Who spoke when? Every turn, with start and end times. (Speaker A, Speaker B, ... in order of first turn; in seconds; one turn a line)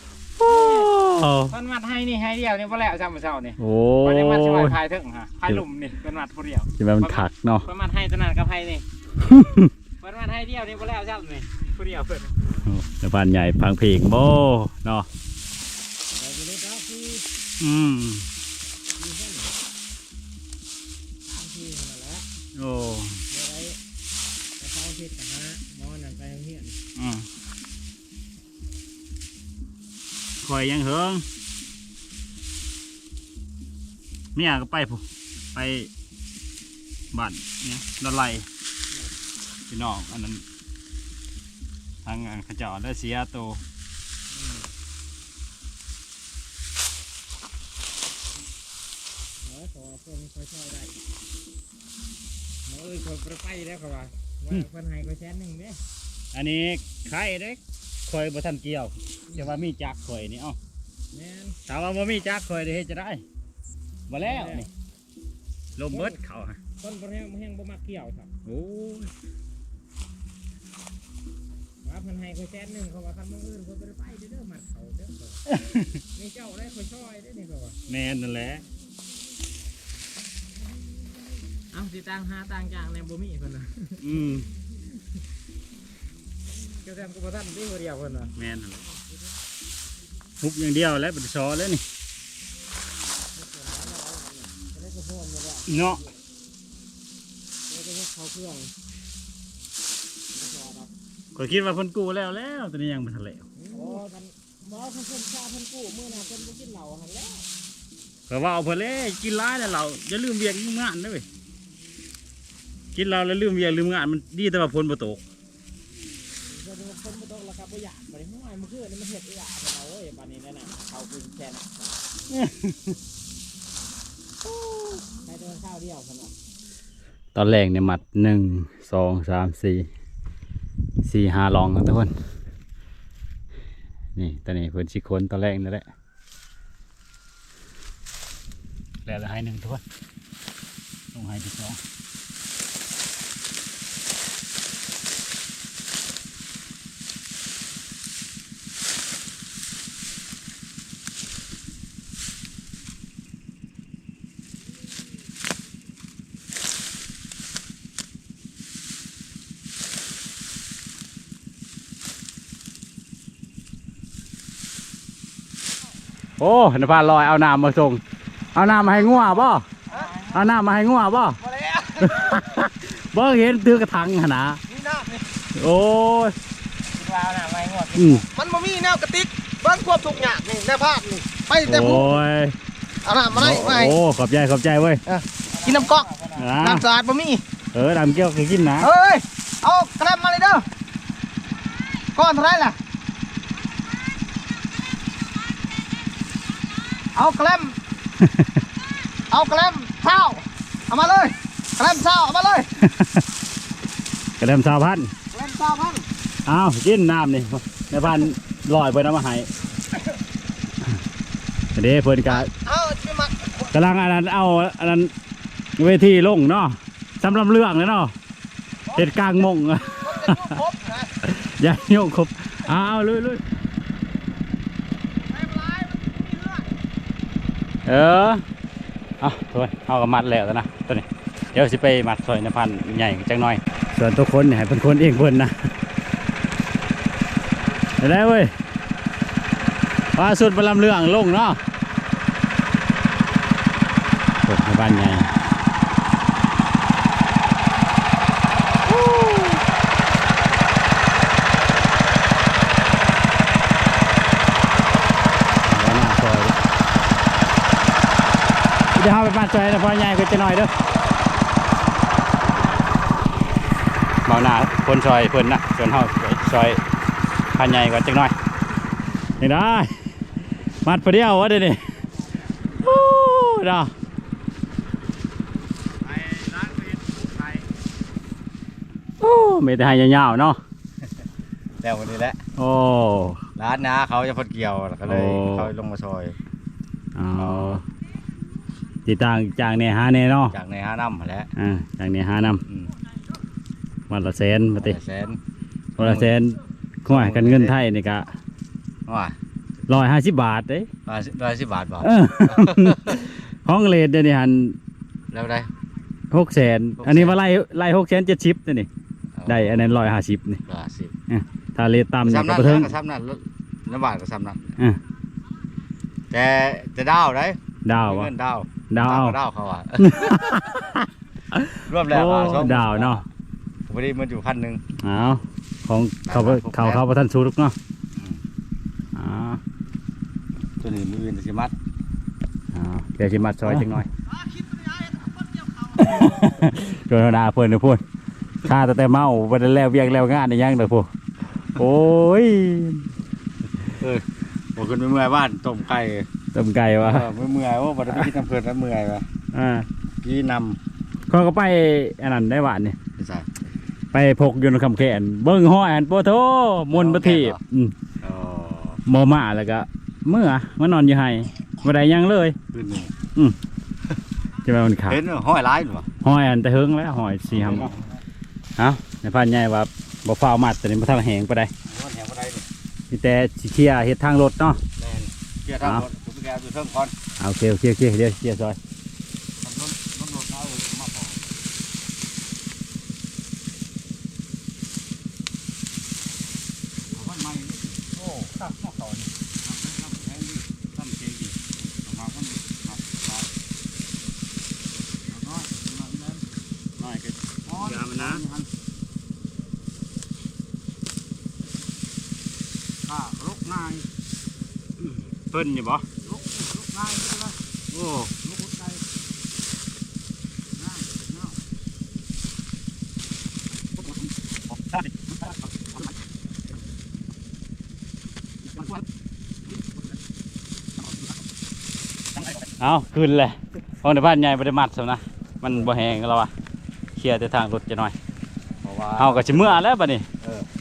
Speaker A: 0.4-1.5
Speaker B: 0.4-0.9
Speaker B: 1.5-8.8
Speaker A: 3.6-4.8
Speaker A: 6.8-7.7
Speaker A: 9.2-9.7
Speaker B: 10.0-12.3
Speaker A: 12.7-15.1
Speaker B: 16.2-17.2
Speaker A: 17.6-18.3
Speaker B: 19.0-19.5
Speaker B: 21.3-22.2
Speaker A: 22.6-23.2
Speaker B: 23.3-23.8
Speaker B: 24.6-26.8
Speaker A: 27.0-27.3
Speaker A: 30.4-31.2
Speaker A: 34.4-35.0
Speaker A: 35.5-35.9
Speaker A: 37.1-38.5
Speaker A: 39.7-40.4
Speaker A: 42.0-43.6
Speaker B: 44.3-44.7
Speaker B: 49.4-51.0
Speaker B: 52.7-55.8
Speaker A: 56.3-60.6
Speaker B: 61.1-61.6
Speaker A: 61.7-63.2
Speaker A: 64.1-64.7
Speaker B: 64.2-64.7
Speaker A: 65.8-66.6
Speaker B: 65.9-66.2
Speaker B: 66.8-68.3
Speaker A: 68.5-69.1
Speaker B: 71.8-75.4
Speaker A: 75.5-76.0
Speaker B: 76.1-77.8
Speaker A: 77.9-78.6
Speaker B: 81.7-84.0
Speaker A: 84.0-84.5
Speaker B: 86.8-88.3
Speaker A: 88.4-88.8
Speaker A: 90.4-91.8
Speaker B: 93.3-96.2
Speaker A: 95.7-96.0
Speaker B: 97.7-98.7
Speaker B: 100.3-100.9
Speaker A: 101.3-103.5
Speaker B: 103.6-107.5
Speaker A: 108.3-111.2
Speaker A: 113.0-115.2
Speaker B: 116.5-122.0
Speaker A: 122.3-122.8
Speaker A: 124.7-125.0
Speaker B: 125.2-126.3
Speaker A: 127.3-129.9
Speaker A: 131.0-132.1
Speaker A: 134.2-135.9
Speaker A: 139.1-139.8
Speaker A: 141.1-141.8
Speaker A: 166.4-168.0
Speaker A: 168.6-169.7
Speaker B: 169.9-170.5
Speaker A: 170.3-171.4
Speaker C: 171.4-172.5
Speaker A: 172.0-174.6
Speaker C: 174.7-175.2
Speaker A: 175.6-176.4
Speaker B: 176.9-178.3
Speaker A: 177.9-178.2
Speaker C: 178.3-182.2
Speaker A: 181.7-182.6
Speaker C: 183.1-184.0
Speaker A: 183.3-185.0
Speaker C: 185.1-186.1
Speaker B: 185.5-186.6
Speaker A: 186.4-186.8
Speaker C: 186.6-187.4
Speaker A: 187.7-188.9
Speaker C: 188.8-190.7
Speaker C: 192.2-192.8
Speaker C: 197.2-197.8
Speaker A: 198.2-198.5
Speaker C: 199.3-202.7
Speaker A: 202.8-203.2
Speaker A: 204.4-205.1
Speaker D: 205.3-205.8
Speaker C: 205.6-206.0
Speaker A: 206.5-209.5
Speaker A: 211.8-212.5
Speaker C: 212.3-213.7
Speaker A: 213.7-215.1
Speaker A: 215.8-218.1
Speaker C: 218.9-219.3
Speaker A: 218.9-220.6
Speaker C: 220.0-221.1
Speaker A: 221.2-223.4
Speaker C: 225.3-226.7
Speaker A: 227.9-228.4
Speaker A: 229.2-235.5
Speaker A: 238.0-238.5
Speaker A: 240.2-241.6
Speaker A: 244.4-245.3
Speaker A: 248.9-249.6
Speaker A: 255.6-256.6
Speaker A: 258.9-260.7
Speaker A: 264.3-266.8
Speaker A: 267.6-268.4
Speaker A: 269.4-270.0
Speaker A: 270.9-271.8
Speaker A: 272.8-273.9
Speaker D: 276.0-277.6
Speaker A: 279.2-280.6
Speaker D: 281.8-282.4
Speaker A: 282.6-283.4
Speaker D: 283.6-286.4
Speaker A: 285.1-285.7
Speaker A: 287.2-287.8
Speaker D: 287.4-287.8
Speaker A: 289.1-290.6
Speaker D: 290.5-291.5
Speaker A: 291.6-292.6
Speaker D: 292.7-292.9
Speaker A: 294.1-295.0
Speaker D: 294.8-295.4
Speaker D: 296.0-296.3
Speaker A: 296.0-298.3
Speaker D: 297.1-297.7
Speaker D: 299.1-299.4
Speaker A: 299.9-300.9
Speaker D: 301.1-303.1
Speaker A: 302.0-304.8
Speaker D: 305.3-305.7
Speaker A: 306.3-308.9
Speaker D: 307.0-307.4
Speaker D: 309.4-309.9
Speaker A: 309.5-310.6
Speaker D: 310.7-311.1
Speaker A: 311.3-312.9
Speaker D: 312.2-314.8
Speaker D: 316.3-320.3
Speaker A: 317.9-318.3
Speaker A: 318.9-319.4
Speaker A: 320.0-323.2
Speaker D: 321.9-323.2
Speaker D: 323.9-324.8
Speaker A: 325.0-327.8
Speaker D: 326.3-327.0
Speaker D: 328.1-328.4
Speaker A: 329.1-329.6
Speaker D: 330.8-331.7
Speaker A: 332.7-334.1
Speaker C: 334.3-336.4
Speaker A: 336.0-338.0
Speaker A: 338.6-341.1
Speaker A: 341.8-343.1
Speaker D: 344.0-344.2
Speaker D: 344.8-346.3
Speaker A: 346.5-347.3
Speaker D: 347.0-349.2
Speaker A: 349.5-349.9
Speaker D: 350.2-350.8
Speaker A: 351.3-353.0
Speaker D: 353.2-353.5
Speaker A: 354.1-357.9
Speaker D: 356.9-357.6
Speaker D: 358.2-359.0
Speaker A: 359.1-362.6
Speaker D: 362.7-363.1
Speaker A: 364.6-365.2
Speaker D: 365.1-366.1
Speaker A: 366.2-367.9
Speaker D: 367.5-368.2
Speaker A: 368.8-371.7
Speaker D: 371.9-372.7
Speaker A: 373.1-374.8
Speaker D: 375.0-377.1
Speaker A: 375.8-376.1
Speaker A: 377.4-378.8
Speaker D: 379.6-381.4
Speaker D: 387.1-393.5
Speaker D: 395.3-396.4
Speaker D: 397.0-398.7
Speaker A: 397.8-398.4
Speaker D: 403.1-404.1
Speaker A: 405.0-406.1
Speaker D: 406.2-409.0
Speaker D: 410.8-411.6
Speaker A: 422.8-426.5
Speaker A: 427.2-428.1
Speaker D: 428.8-429.8
Speaker A: 429.2-430.3